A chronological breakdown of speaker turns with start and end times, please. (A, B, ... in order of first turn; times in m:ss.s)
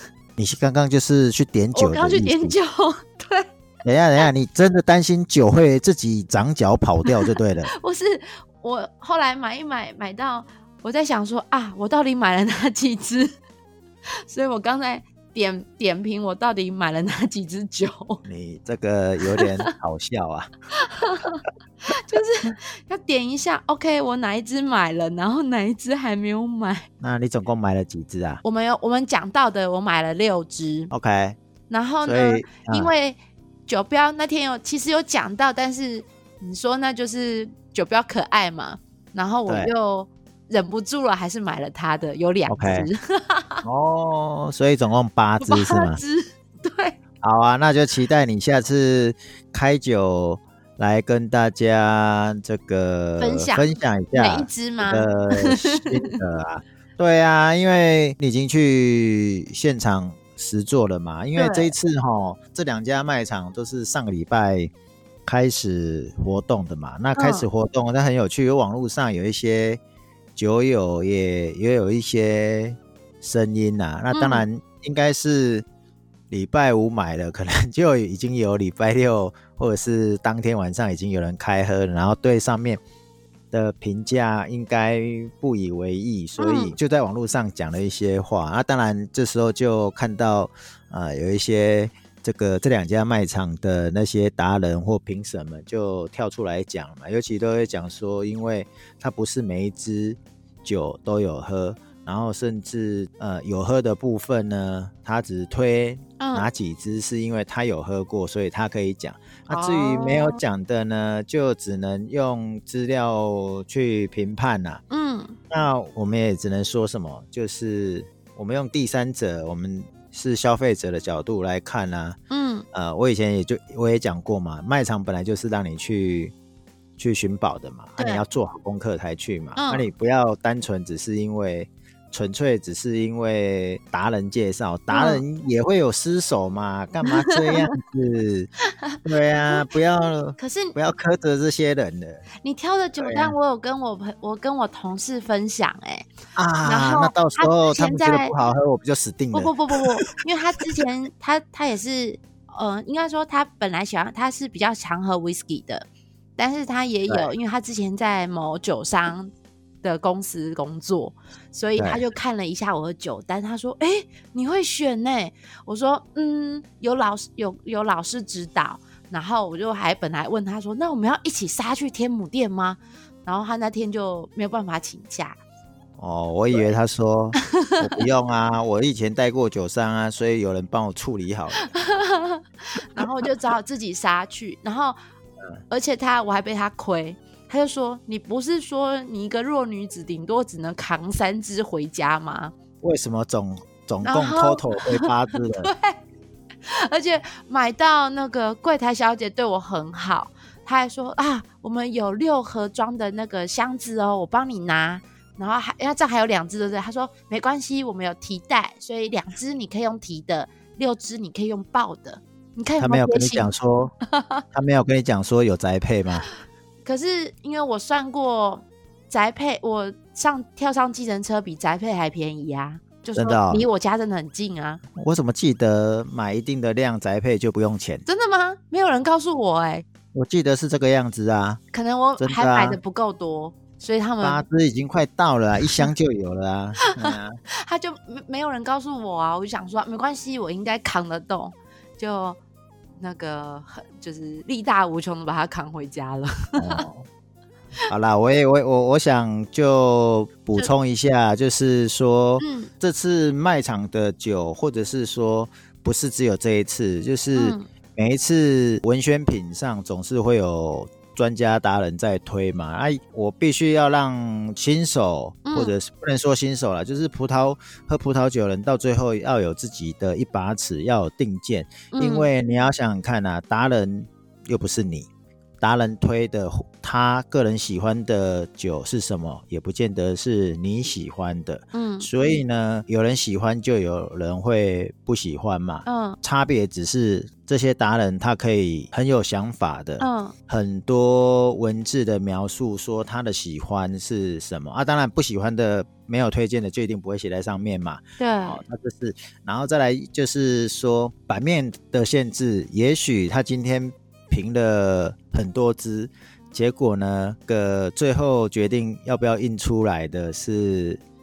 0:00.4-0:02.6 A
0:01.8-0:03.5 B
0:03.8-0:07.7 A
0:07.2-0:13.3 B
0:14.3-0:18.2 B
0:18.2-0:20.5 A
0:19.4-0:19.7 B
0:20.8-0:26.9 B
0:27.0-0:28.4 A
0:28.4-0:30.9 B
0:30.9-0:31.4 A
0:31.7-0:43.6 B
0:32.0-0:32.9 A
0:39.5-0:39.7 A
0:42.5-0:42.9 A
0:43.6-0:46.0 A
0:45.4-0:47.0 B
0:47.2-1:04.7 A
0:53.2-0:56.2 B
1:01.4-1:01.7 B
1:05.3-1:09.8 A
1:07.2-1:07.5 B
1:10.4-1:15.6 A
1:14.1-1:14.5 B
1:16.3-1:22.8 A
1:23.5-1:54.8 A
1:26.4-1:26.8 B
1:46.2-1:46.5 B
1:49.5-1:50.4 B
1:54.9-1:55.4 B
1:55.5-2:02.2 A
2:02.3-2:02.7 B
2:02.7-2:06.3 A
2:07.0-2:18.5 A
2:08.0-2:08.2 B
2:09.6-2:09.9 B
2:14.9-2:15.2 B
2:17.1-2:17.7 B
2:19.0-2:22.2 A
2:20.4-2:20.8 B
2:22.4-2:26.1 B
2:23.0-2:23.4 A
2:26.4-2:29.5 A
2:26.6-2:28.3 B
2:29.3-2:39.3 B
2:39.8-2:55.4 B
2:41.8-2:42.1 A
2:56.0-3:01.8 A
3:01.6-3:05.0 B
3:05.7-3:12.6 B
3:12.8-3:15.7 A
3:14.0-3:15.0 B
3:15.6-3:16.0 B
3:16.7-3:33.5 B
3:32.8-3:33.9 A
3:34.1-3:34.4 B
3:34.5-3:36.3 A
3:36.8-3:44.8 B
3:43.2-3:43.7 A
3:45.0-3:48.0 A
3:48.1-3:49.9 B
3:50.1-3:51.6 A
3:51.7-3:54.4 B
3:52.2-3:52.8 A
3:54.2-3:57.4 A
3:57.0-4:02.4 B
4:03.0-4:06.8 B
4:06.6-4:07.1 A
4:07.9-4:35.1 A
4:12.4-4:12.7 B
4:17.4-4:17.7 B
4:25.5-4:25.8 B
4:31.9-4:32.3 B
4:35.6-5:11.0 A
4:41.7-4:42.1 B
4:45.9-4:46.2 B
4:50.0-4:50.4 B
4:58.2-4:58.6 B